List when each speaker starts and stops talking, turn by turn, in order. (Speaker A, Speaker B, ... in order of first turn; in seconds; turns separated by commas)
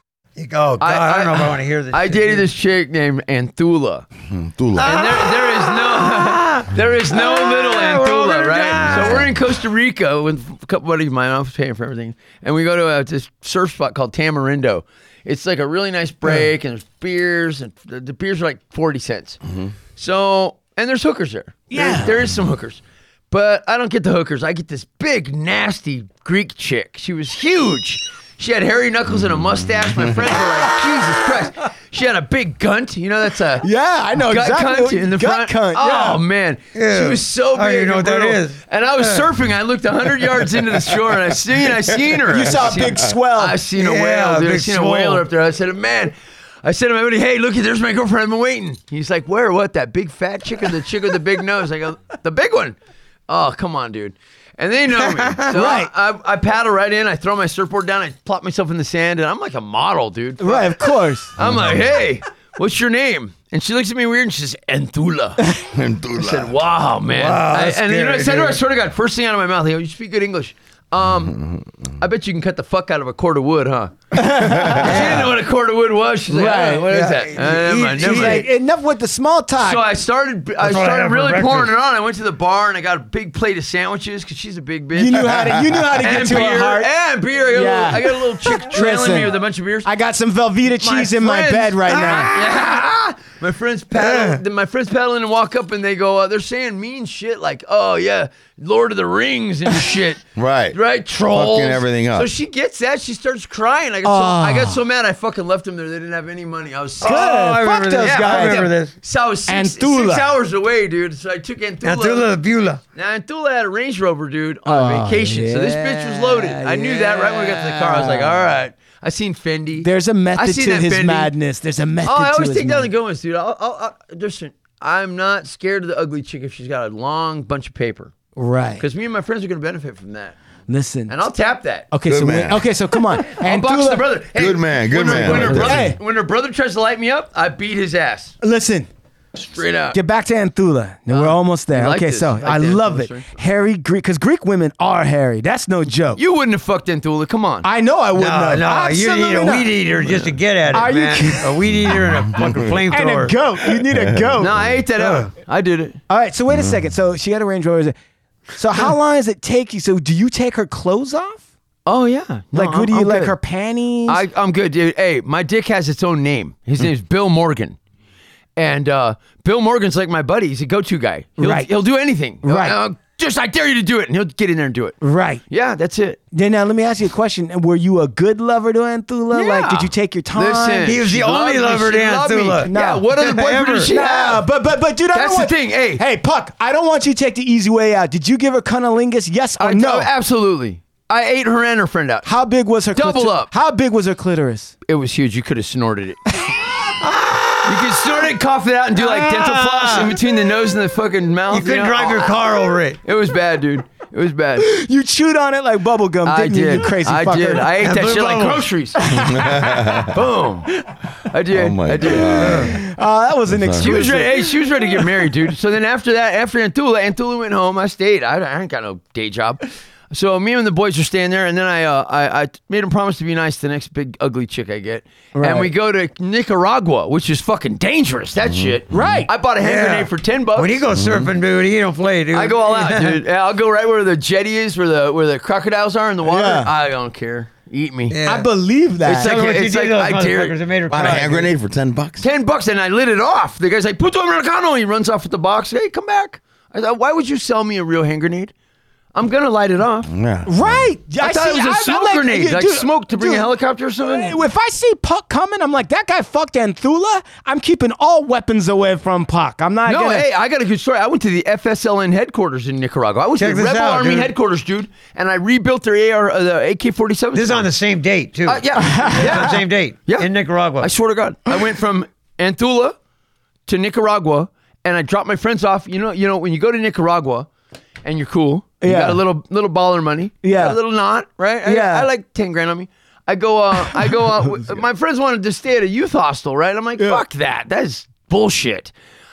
Speaker A: 0.4-2.5, Speaker B: 0.8-4.1, Speaker C: 4.3-5.1, Speaker A: 4.8-6.5, Speaker B: 4.8-19.4, Speaker A: 7.2-9.1, Speaker D: 8.7-9.2, Speaker C: 9.0-9.3, Speaker C: 19.4-19.7, Speaker B: 19.9-33.7, Speaker D: 21.7-22.2, Speaker C: 29.2-30.2, Speaker D: 33.6-36.2, Speaker B: 34.2-52.8, Speaker A: 36.7-39.3, Speaker D: 42.2-43.6, Speaker A: 43.8-45.2, Speaker B: 53.3-65.4, Speaker D: 55.4-55.9, Speaker D: 60.4-61.4, Speaker C: 61.4-61.9, Speaker C: 65.7-66.5, Speaker B: 66.2-71.4, Speaker A: 67.1-68.6, Speaker C: 71.2-71.9, Speaker B: 72.0-74.1, Speaker D: 74.1-75.2, Speaker C: 74.5-75.0, Speaker B: 74.6-78.5, Speaker A: 74.8-75.3, Speaker D: 76.3-76.9, Speaker A: 76.9-78.5, Speaker D: 78.0-79.8, Speaker B: 79.6-89.9, Speaker A: 80.6-81.7, Speaker D: 84.9-86.9, Speaker D: 87.5-92.3, Speaker B: 90.7-100.2, Speaker A: 91.9-92.4, Speaker A: 93.9-94.4, Speaker C: 100.3-102.3, Speaker B: 100.7-107.3, Speaker D: 104.0-104.8, Speaker A: 107.0-108.9, Speaker D: 107.0-108.8, Speaker B: 108.0-112.3, Speaker D: 109.5-110.3, Speaker A: 111.8-112.8, Speaker B: 112.9-121.3, Speaker D: 114.7-118.5, Speaker D: 119.8-122.9, Speaker B: 122.0-128.2, Speaker D: 128.4-128.8, Speaker B: 128.8-130.4, Speaker D: 130.7-131.2, Speaker B: 131.1-131.9, Speaker D: 131.9-134.1, Speaker C: 132.1-132.7, Speaker B: 133.2-138.4, Speaker C: 134.3-135.9, Speaker D: 135.1-136.0, Speaker D: 138.4-138.9, Speaker B: 139.3-140.0, Speaker D: 139.9-146.2, Speaker B: 141.1-143.4, Speaker B: 146.2-147.7, Speaker D: 147.6-151.7, Speaker A: 148.2-153.4, Speaker C: 151.9-152.8, Speaker D: 152.9-154.7, Speaker C: 153.9-154.7, Speaker B: 154.4-156.0, Speaker A: 155.0-155.3, Speaker D: 156.1-157.9, Speaker C: 156.5-156.8, Speaker D: 158.5-161.4, Speaker B: 161.9-163.4, Speaker D: 162.5-164.2, Speaker B: 164.1-167.8, Speaker B: 168.6-175.0, Speaker D: 171.4-171.7, Speaker D: 172.4-172.8, Speaker D: 175.0-175.4, Speaker B: 175.5-176.2, Speaker D: 176.3-181.0, Speaker B: 179.3-184.4, Speaker A: 180.8-183.9, Speaker D: 182.7-190.1, Speaker B: 185.1-186.0, Speaker B: 189.6-192.3, Speaker D: 192.2-194.7, Speaker B: 192.9-193.5, Speaker B: 194.9-196.2, Speaker D: 196.4-198.0, Speaker B: 197.6-202.5, Speaker A: 199.2-200.1, Speaker A: 201.5-203.0, Speaker B: 203.0-204.7, Speaker D: 204.6-207.8, Speaker B: 206.2-209.0, Speaker A: 207.8-208.7, Speaker D: 209.0-210.1, Speaker C: 209.1-210.2, Speaker B: 210.1-210.7, Speaker B: 211.3-212.7, Speaker C: 211.5-212.8, Speaker A: 212.4-212.7, Speaker D: 212.6-215.3, Speaker C: 213.5-214.0, Speaker B: 213.8-230.8, Speaker D: 225.3-225.7, Speaker C: 228.4-229.2, Speaker D: 228.9-229.3, Speaker A: 229.6-233.2, Speaker C: 230.9-231.3, Speaker B: 232.3-238.2, Speaker D: 236.2-236.7, Speaker A: 238.1-238.5, Speaker D: 238.3-239.3, Speaker B: 239.1-240.6, Speaker A: 239.1-241.5, Speaker C: 240.9-242.3, Speaker B: 242.2-248.5, Speaker B: 249.1-250.1, Speaker C: 250.1-250.9, Speaker D: 250.4-260.3, Speaker B: 251.2-254.4, Speaker B: 259.9-267.7, Speaker A: 263.4-264.3, Speaker A: 267.4-270.9, Speaker B: 268.4-270.3, Speaker D: 268.9-269.3, Speaker B: 270.8-272.9, Speaker B: 273.6-277.5, Speaker B: 278.0-288.9, Speaker D: 278.8-279.2, Speaker D: 280.4-280.8, Speaker D: 281.6-282.1, Speaker D: 283.8-284.8